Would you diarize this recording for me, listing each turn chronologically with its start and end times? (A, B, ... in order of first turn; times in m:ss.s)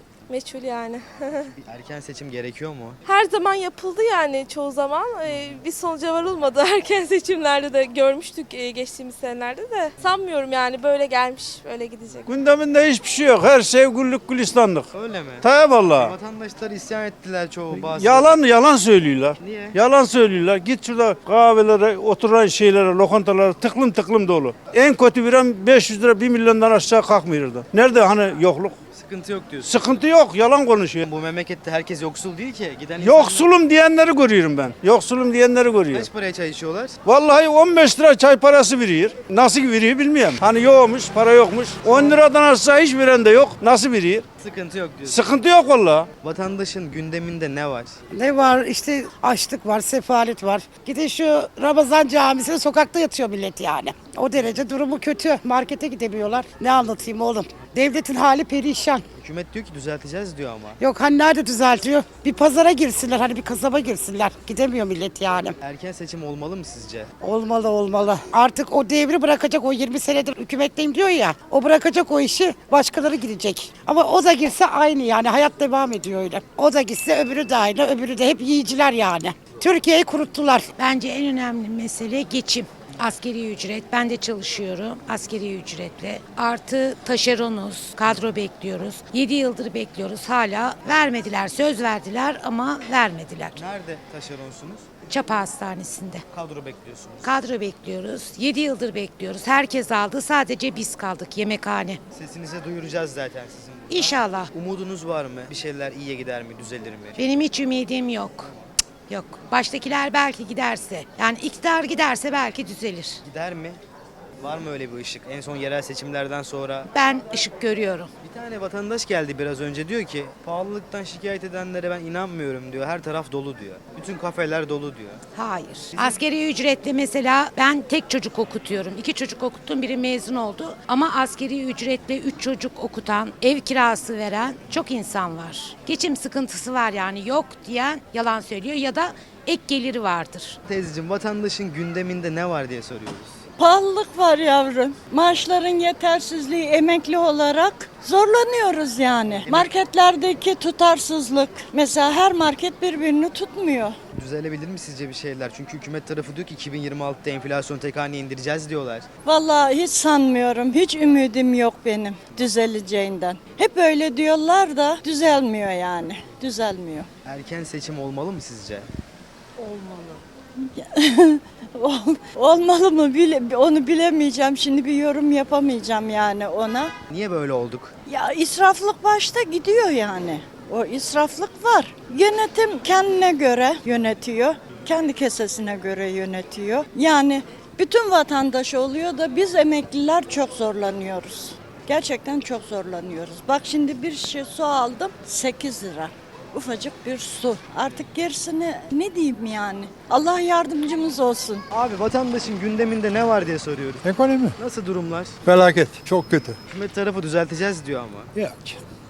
0:00.3-0:01.5 A
0:01.6-0:03.0 B
0:03.1-0:12.3 A
0:12.3-0:14.9 C
0:14.9-0:18.4 B
0:15.4-0:16.2 C
0:17.7-0:28.8 C
0:19.4-0:19.8 B
0:28.9-0:29.9 B
0:29.6-0:31.0 C
0:31.0-0:33.5 B
0:33.0-0:36.1 C
0:35.9-0:37.0 B
0:37.1-0:44.2 C
0:41.9-0:42.2 B
0:44.4-0:45.3 B
0:45.1-0:46.1 C
0:46.2-0:48.0 B
0:48.3-0:58.9 D
0:59.2-1:00.8 B
1:01.0-1:05.5 D
1:05.6-1:07.1 B
1:08.0-1:20.5 D
1:20.5-1:33.6 E
1:33.5-1:34.8 B
1:35.1-1:36.2 E
1:36.3-1:37.3 B
1:37.2-1:42.0 E
1:42.1-1:47.2 B
1:43.9-1:44.5 E
1:47.2-1:48.5 E
1:49.1-1:53.2 E
1:53.2-1:53.8 B
1:54.4-1:56.9 B
1:56.9-1:58.1 E
1:58.2-2:05.2 B
2:05.3-2:20.6 E
2:06.0-2:06.2 B
2:20.7-2:23.4 B
2:23.6-2:33.9 F
2:29.4-2:29.7 B
2:34.2-2:39.1 B
2:39.2-2:47.1 F
2:47.3-2:48.9 B
2:49.6-2:50.2 F
2:50.7-2:56.9 F
2:57.1-2:57.9 B
2:58.1-3:21.6 F
3:21.7-3:24.0 B
3:24.0-3:24.6 G
3:24.6-3:25.4 B
3:25.4-3:26.6 G
3:26.7-3:28.3 B
3:28.4-3:28.8 G